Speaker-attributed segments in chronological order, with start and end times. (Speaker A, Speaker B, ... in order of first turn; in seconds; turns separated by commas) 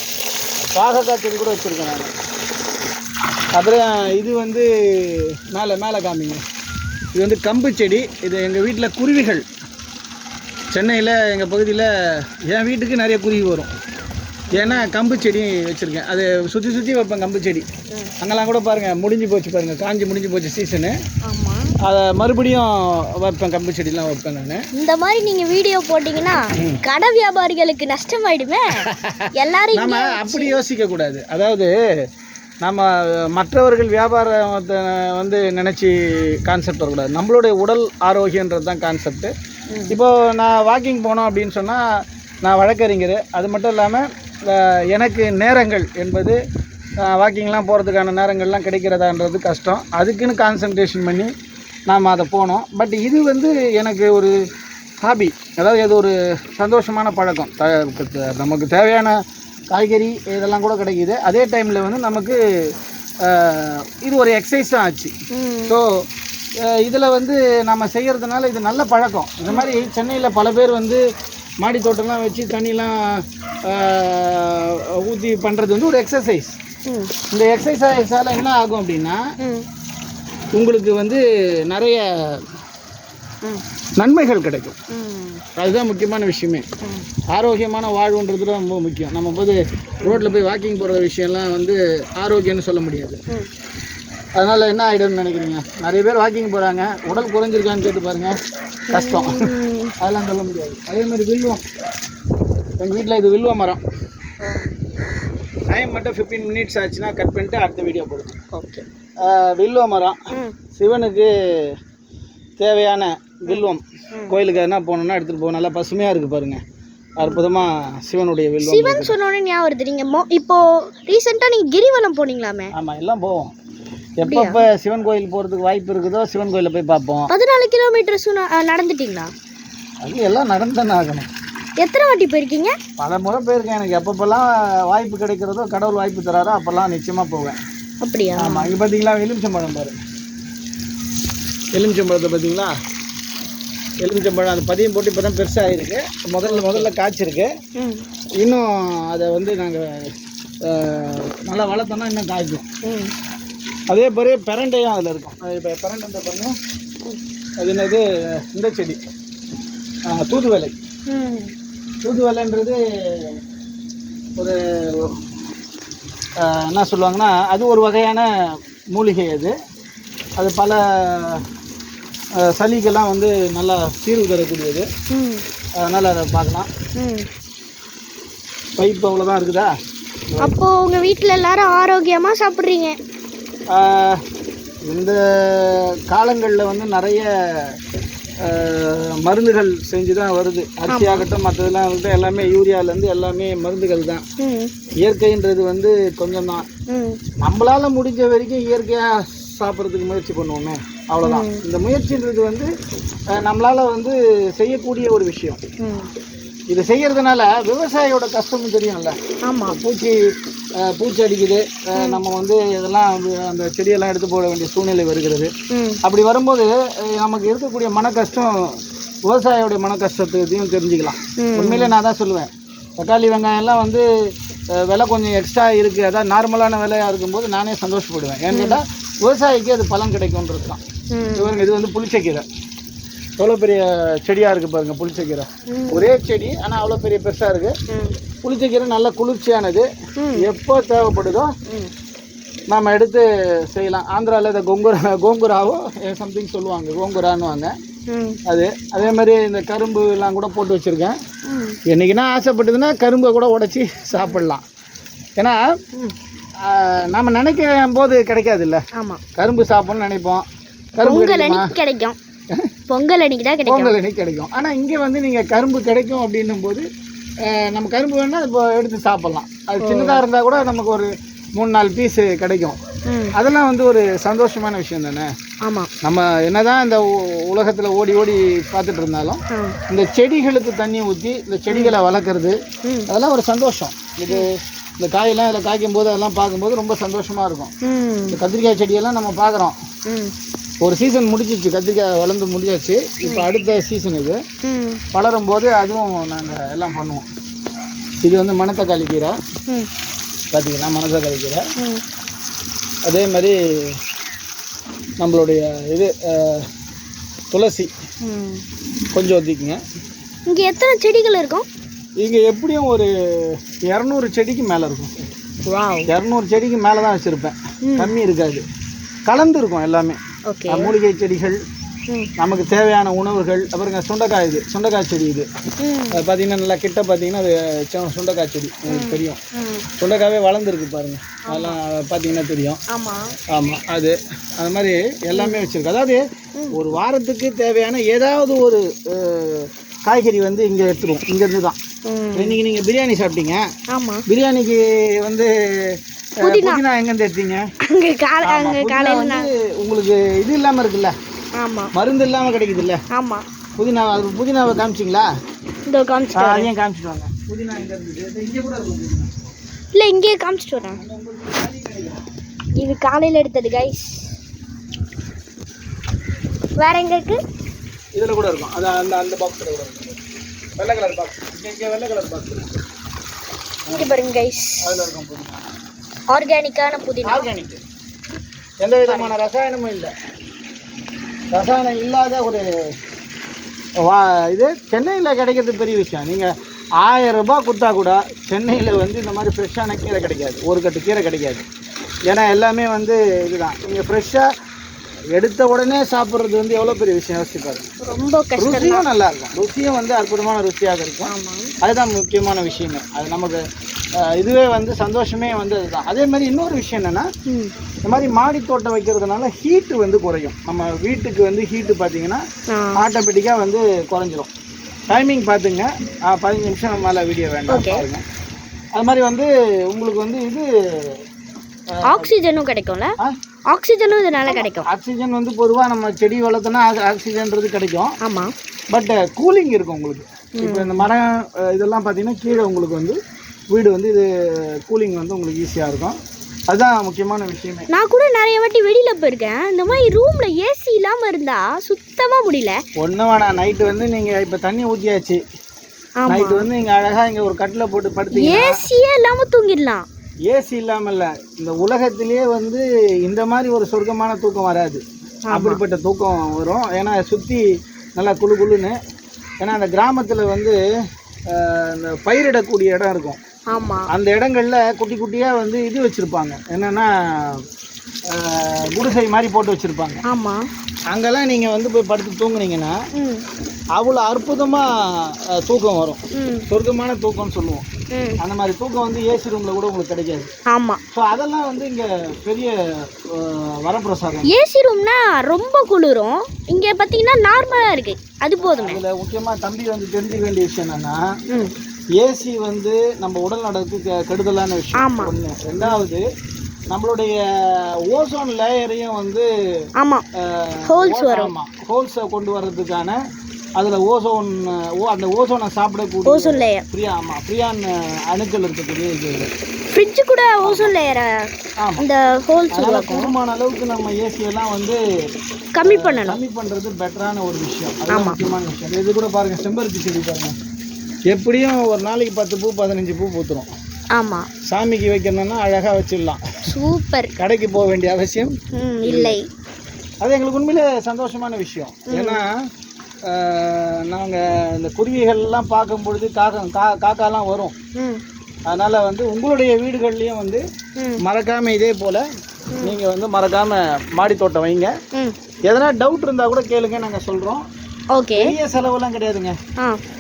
Speaker A: 0.7-2.1, Speaker A: 3.5-6.4, Speaker A: 7.1-9.4, Speaker A: 10.7-13.7, Speaker B: 14.5-14.9, Speaker A: 14.5-17.6, Speaker A: 18.2-20.9, Speaker B: 21.2-21.7, Speaker A: 21.8-24.6, Speaker B: 24.7-30.6, Speaker A: 28.9-31.7, Speaker A: 32.6-39.3, Speaker B: 39.7-40.0, Speaker A: 39.9-41.8, Speaker A: 42.4-46.4, Speaker A: 47.0-51.3, Speaker A: 51.9-54.3, Speaker A: 55.0-59.2, Speaker A: 59.7-62.4, Speaker A: 63.2-65.1, Speaker B: 65.3-65.8, Speaker A: 66.6-71.0, Speaker A: 71.6-76.6, Speaker B: 76.8-77.1, Speaker A: 77.3-79.2, Speaker B: 79.4-79.7, Speaker A: 80.5-82.4, Speaker A: 84.0-84.8, Speaker B: 84.9-85.4, Speaker A: 85.5-86.6, Speaker A: 87.3-93.2, Speaker A: 94.4-98.3, Speaker A: 98.9-99.4, Speaker B: 98.9-99.9, Speaker A: 100.0-101.6, Speaker A: 102.8-103.8, Speaker B: 104.4-104.7, Speaker A: 105.7-108.3, Speaker B: 108.5-108.8, Speaker A: 109.2-110.2, Speaker A: 110.7-111.7, Speaker A: 112.6-116.6, Speaker B: 113.5-114.3, Speaker A: 117.2-119.1, Speaker B: 118.6-122.7, Speaker A: 122.7-123.5, Speaker A: 124.2-127.3, Speaker B: 124.2-124.6, Speaker B: 127.3-129.3, Speaker A: 130.0-131.3, Speaker B: 131.8-132.7, Speaker A: 133.0-137.6, Speaker B: 138.0-138.7, Speaker A: 138.4-140.0, Speaker A: 141.7-142.7, Speaker A: 144.0-147.5, Speaker B: 146.4-146.9, Speaker B: 147.8-148.0, Speaker A: 148.4-150.1, Speaker A: 150.6-152.6, Speaker B: 152.8-153.1, Speaker A: 153.9-156.5, Speaker A: 157.6-159.0, Speaker A: 160.1-160.7, Speaker B: 161.1-161.5, Speaker A: 162.0-163.4, Speaker A: 164.4-165.1, Speaker A: 166.4-168.3, Speaker A: 168.9-169.5, Speaker A: 170.4-171.4, Speaker A: 172.4-174.9, Speaker B: 175.1-175.4, Speaker A: 175.8-176.7, Speaker B: 177.0-177.3, Speaker A: 178.8-179.7, Speaker B: 180.4-183.0, Speaker A: 183.7-184.2, Speaker A: 184.8-187.8, Speaker A: 188.4-194.2, Speaker B: 190.9-191.2, Speaker B: 194.4-194.7, Speaker A: 195.0-196.7, Speaker B: 196.9-197.2, Speaker A: 197.4-202.7, Speaker B: 201.2-201.6, Speaker A: 203.3-205.6, Speaker B: 205.8-206.1, Speaker A: 206.7-210.2, Speaker B: 209.4-209.8, Speaker A: 210.8-215.5, Speaker B: 215.7-216.0, Speaker A: 216.0-218.5, Speaker A: 219.3-224.1, Speaker B: 221.4-221.9, Speaker A: 224.8-230.8, Speaker B: 228.5-228.8, Speaker B: 231.1-231.5, Speaker A: 231.3-232.4, Speaker A: 233.4-237.7, Speaker B: 235.7-236.1, Speaker B: 237.9-238.2, Speaker A: 238.4-241.5, Speaker B: 240.2-240.4, Speaker A: 242.7-247.7, Speaker B: 248.1-248.4, Speaker A: 248.5-251.2, Speaker B: 251.5-251.8, Speaker A: 251.9-254.6, Speaker A: 256.6-258.8, Speaker B: 258.9-259.2, Speaker A: 259.4-260.4, Speaker A: 261.0-261.7, Speaker B: 261.0-262.1, Speaker B: 262.9-263.9, Speaker A: 263.7-266.9, Speaker A: 267.4-272.8, Speaker B: 269.8-270.2, Speaker B: 273.1-273.3, Speaker A: 273.3-275.3, Speaker A: 276.0-282.6, Speaker B: 281.7-281.9, Speaker A: 283.1-287.7, Speaker B: 287.8-288.4, Speaker A: 288.3-289.7, Speaker B: 290.1-290.3, Speaker A: 290.8-294.4, Speaker B: 294.6-295.0, Speaker A: 295.1-297.2, Speaker A: 298.2-299.4, Speaker A: 300.5-301.6, Speaker A: 303.0-303.9, Speaker A: 305.2-306.6, Speaker A: 307.5-307.9, Speaker B: 308.2-308.6, Speaker A: 309.1-309.8, Speaker B: 310.4-311.6, Speaker A: 312.2-315.2, Speaker B: 315.6-316.1, Speaker A: 316.1-318.6, Speaker B: 317.9-318.1, Speaker A: 319.2-320.2, Speaker B: 320.5-320.9, Speaker A: 320.7-321.6, Speaker A: 322.4-325.5, Speaker B: 325.8-326.2, Speaker A: 326.1-329.4, Speaker B: 328.9-329.9, Speaker A: 330.0-332.8, Speaker B: 331.5-331.8, Speaker B: 332.9-333.3, Speaker A: 333.5-341.8, Speaker B: 335.3-335.6, Speaker B: 342.1-342.6, Speaker A: 342.3-343.6, Speaker B: 343.9-344.2, Speaker A: 344.3-347.6, Speaker B: 346.4-346.8, Speaker B: 347.9-349.5, Speaker A: 348.4-351.1, Speaker B: 351.6-351.9, Speaker A: 351.9-353.0, Speaker B: 353.1-353.4, Speaker A: 353.8-355.3, Speaker B: 355.9-356.7, Speaker A: 356.4-359.3, Speaker B: 359.9-361.0, Speaker A: 360.9-362.2, Speaker B: 362.8-364.3, Speaker B: 366.8-367.4, Speaker A: 368.1-370.2, Speaker A: 370.8-372.7, Speaker A: 373.9-374.1, Speaker B: 373.9-374.8, Speaker A: 374.8-375.6, Speaker B: 376.3-377.5, Speaker A: 377.2-377.8, Speaker A: 378.8-380.1, Speaker B: 379.1-379.3, Speaker A: 381.5-382.6, Speaker A: 384.0-386.5, Speaker A: 387.0-391.6, Speaker A: 392.3-394.4, Speaker A: 395.4-397.9, Speaker B: 398.0-399.0, Speaker A: 398.6-403.6, Speaker B: 401.2-401.7, Speaker A: 404.2-407.3, Speaker B: 407.5-407.7, Speaker A: 408.1-412.4, Speaker B: 412.7-413.0, Speaker A: 413.0-414.5, Speaker A: 415.1-418.2, Speaker B: 417.7-418.0, Speaker A: 418.9-421.1, Speaker A: 421.9-422.3, Speaker B: 422.0-423.1, Speaker B: 423.7-424.9, Speaker A: 424.5-428.1, Speaker B: 428.2-428.5, Speaker A: 428.9-433.2, Speaker B: 430.6-431.1, Speaker A: 433.7-434.3, Speaker A: 434.8-436.1, Speaker A: 436.7-437.9, Speaker B: 437.9-442.8, Speaker A: 443.0-445.4, Speaker B: 446.2-446.6, Speaker A: 446.3-448.8, Speaker B: 448.3-450.1, Speaker A: 450.5-457.6, Speaker B: 455.5-455.8, Speaker A: 458.2-458.9, Speaker A: 459.6-460.8, Speaker A: 461.5-463.4, Speaker B: 463.7-464.1, Speaker A: 464.1-467.6, Speaker A: 468.3-470.2, Speaker B: 470.3-470.6, Speaker A: 471.1-472.9, Speaker B: 473.1-473.4, Speaker A: 474.0-477.8, Speaker B: 476.3-476.7, Speaker B: 478.1-478.4, Speaker A: 478.4-480.5, Speaker B: 480.7-481.0, Speaker A: 481.1-482.7, Speaker A: 483.3-484.5, Speaker B: 484.5-489.0, Speaker A: 488.7-491.2, Speaker A: 492.2-496.2, Speaker B: 494.9-496.1, Speaker A: 496.9-499.5, Speaker B: 500.0-500.2, Speaker A: 500.4-503.2, Speaker B: 500.9-501.5, Speaker A: 503.8-509.5, Speaker B: 506.2-506.8, Speaker B: 509.9-513.3, Speaker A: 510.6-510.9, Speaker A: 512.7-515.0, Speaker B: 515.7-516.4, Speaker A: 515.8-520.5, Speaker B: 518.1-518.4, Speaker A: 521.3-523.7, Speaker B: 524.1-524.5, Speaker A: 524.7-526.4, Speaker B: 526.7-527.3, Speaker A: 527.4-529.4, Speaker B: 528.7-529.5, Speaker A: 530.2-532.6, Speaker B: 532.1-532.4, Speaker A: 533.3-537.7, Speaker B: 538.0-538.2, Speaker A: 538.7-540.6, Speaker A: 541.2-542.2, Speaker A: 542.8-544.9, Speaker A: 545.7-547.6, Speaker B: 548.1-548.5, Speaker A: 548.4-549.5